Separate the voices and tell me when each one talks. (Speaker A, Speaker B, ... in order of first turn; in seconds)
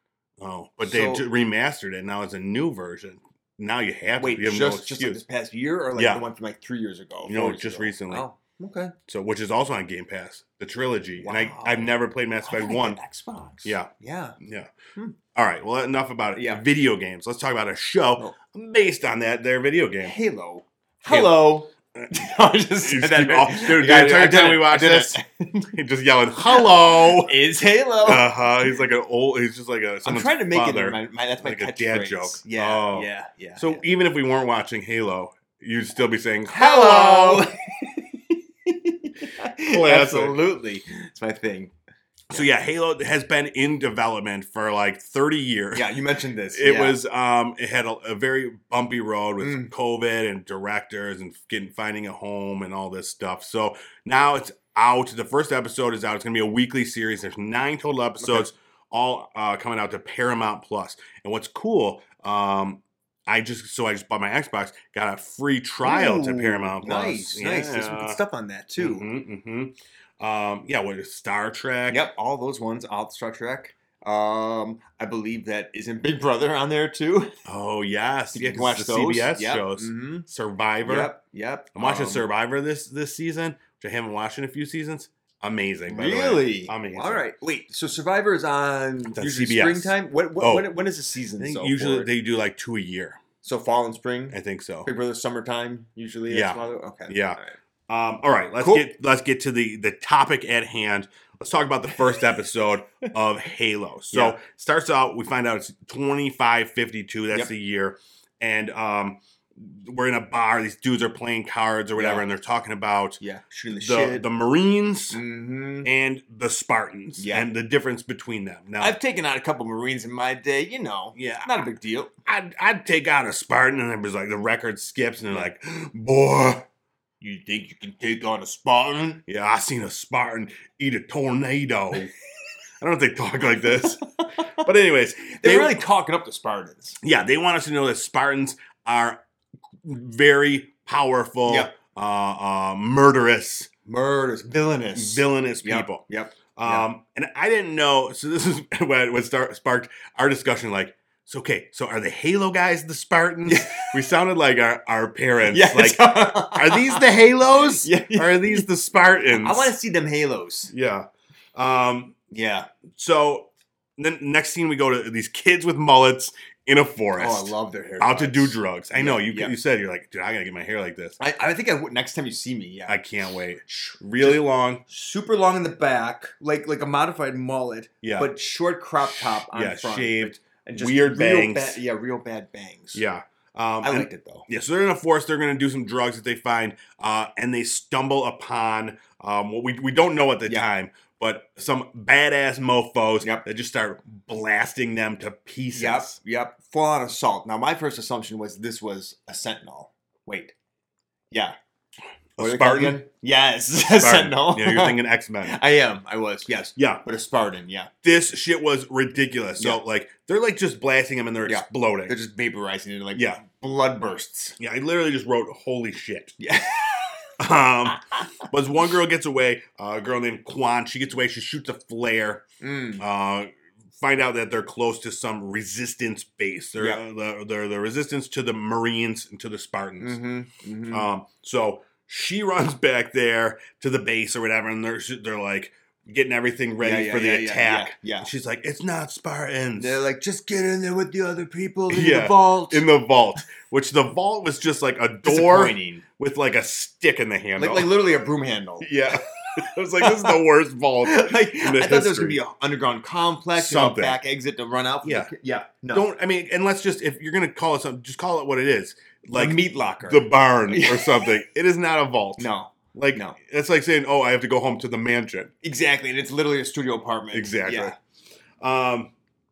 Speaker A: 0.4-5.2, 6.0-6.2, 7.2-8.2, 9.1-13.0, 13.6-14.7, 15.3-20.1, 21.1-21.4, 21.9-25.2, 25.7-27.4, 28.0-37.5, 39.7-40.4, 42.3-45.9, 46.5-68.2, 68.8-72.1, 77.5-81.1, 81.7-87.2, 89.2-90.7, 91.4-93.2, 94.3-94.9, 96.3-115.2, 115.8-119.0, 121.1-121.5, 122.2-126.6, 129.3-132.1, 132.8-135.8, 137.0-139.2, 139.8-143.7, 144.9-146.0, 146.5-159.8, 160.7-162.2, 162.9-171.2, 172.9-174.8, 178.0-178.3, 179.1-181.8, 182.9-196.2, 202.4-203.0, 203.8-205.6, 206.8-207.0, 208.0-212.1, 213.1-213.4, 214.6-216.3, 217.4-222.4, 223.0-230.2, 230.9-240.0, 241.9-247.9, 248.8-252.4, 253.6-254.2, 255.0-255.3, 255.9-265.5, 267.3-267.9, 268.6-269.1
Speaker B: 0.8-1.3, 4.2-8.9, 11.2-11.9, 12.4-14.3, 16.3-16.6, 20.0-25.7, 26.4-28.3, 30.0-33.8, 36.5-41.7, 45.7-47.0, 49.4-49.7, 58.2-58.5, 65.8-69.1, 71.9-77.3, 78.3-80.2, 80.8-82.3, 85.9-92.1, 93.4-97.5, 98.6-98.9, 104.1-104.4, 112.0-112.2, 113.2-114.2, 115.1-115.9, 117.2-117.5, 118.8-122.1, 127.2-129.2, 133.6-134.5, 135.4-137.0, 141.4-141.7, 143.8-146.8, 153.4-154.0, 155.5-157.0, 157.8-158.7, 159.3-160.7, 162.3-162.7, 167.2-169.5, 171.2-173.0, 174.2-183.0, 183.8-184.4, 195.7-200.5, 202.4-207.9, 211.4-214.6, 216.4-217.3, 222.6-223.0, 230.0-231.1, 236.8-238.3, 239.8-242.8, 245.2-246.0, 247.6-250.4, 251.1-256.1, 259.3-261.3, 262.4-263.4, 265.6-267.9